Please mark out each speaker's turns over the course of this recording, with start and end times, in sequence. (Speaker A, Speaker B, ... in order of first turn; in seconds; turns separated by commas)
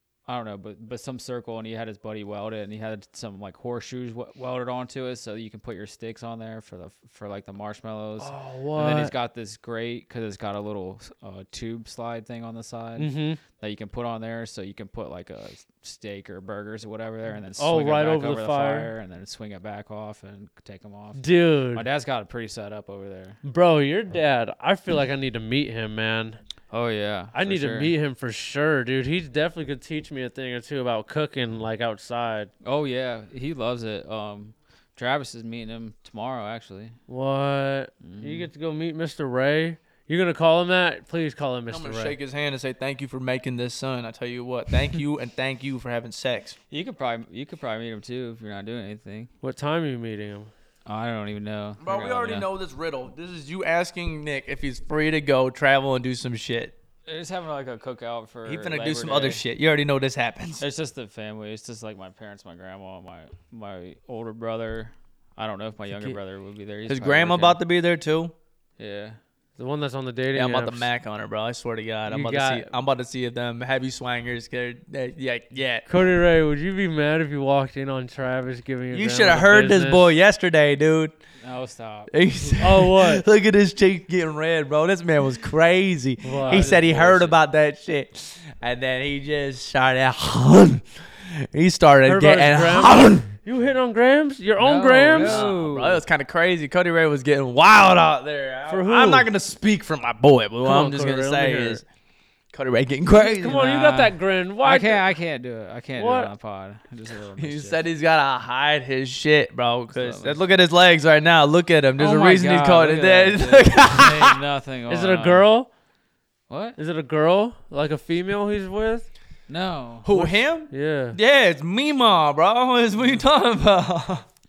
Speaker A: 0.3-23.4, Speaker B: 8.2-9.1, Speaker B: 13.0-13.4, Speaker B: 17.6-18.9, Speaker B: 21.1-21.8, Speaker B: 23.4-26.4, Speaker A: 26.7-27.9, Speaker B: 27.3-32.5, Speaker A: 32.6-37.0, Speaker B: 37.1-42.1, Speaker A: 38.0-38.5, Speaker C: 41.7-46.6, Speaker A: 46.7-49.3, Speaker B: 49.4-50.5, Speaker A: 50.9-52.5, Speaker C: 51.8-56.7, Speaker A: 57.1-59.4, Speaker C: 58.5-60.6, Speaker A: 60.6-67.6, Speaker C: 66.9-68.3, Speaker A: 68.8-69.2, Speaker B: 69.6-70.9, Speaker C: 70.3-75.9, Speaker B: 72.1-72.7, Speaker B: 75.9-80.1, Speaker C: 78.9-81.1, Speaker A: 81.4-82.6, Speaker C: 82.1-93.3, Speaker B: 82.6-83.2, Speaker B: 86.2-86.9, Speaker A: 86.4-87.4, Speaker B: 92.0-95.5, Speaker A: 94.6-96.0, Speaker C: 95.2-101.8, Speaker B: 98.7-99.3, Speaker B: 100.6-101.8, Speaker C: 102.5-103.6, Speaker B: 103.1-105.1, Speaker A: 103.5-107.8, Speaker B: 106.0-106.3, Speaker C: 107.4-114.4, Speaker A: 109.9-110.4, Speaker A: 112.0-115.5, Speaker B: 114.9-115.7, Speaker A: 116.5-116.8, Speaker B: 116.8-119.1, Speaker A: 119.5-120.1, Speaker C: 120.0-124.3, Speaker B: 120.1-121.2